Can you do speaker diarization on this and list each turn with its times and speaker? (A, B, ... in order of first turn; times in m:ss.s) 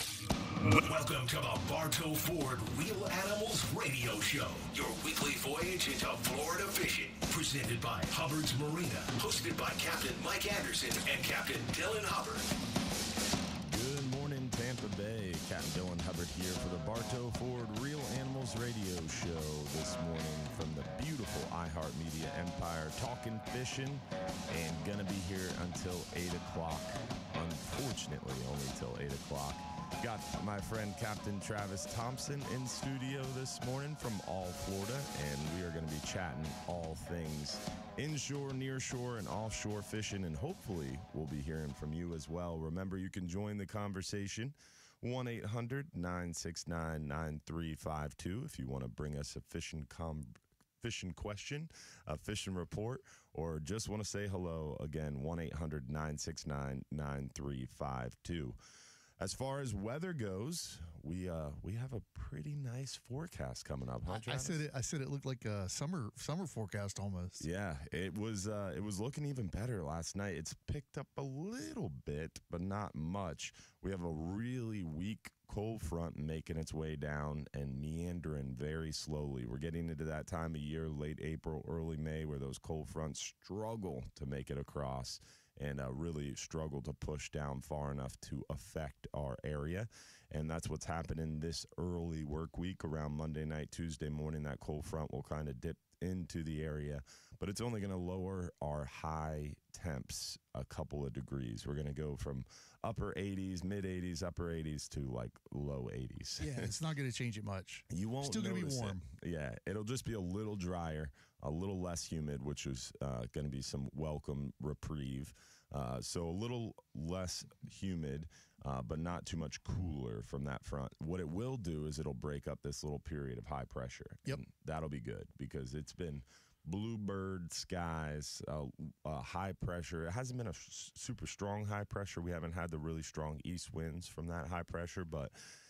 0:00.8-0:12.5 A
0:13.6-0:58.6 B
0:59.2-1:04.6 B
1:04.1-1:07.5 C
1:07.4-1:46.8 B
1:46.4-1:49.0 C
1:47.9-2:15.3 B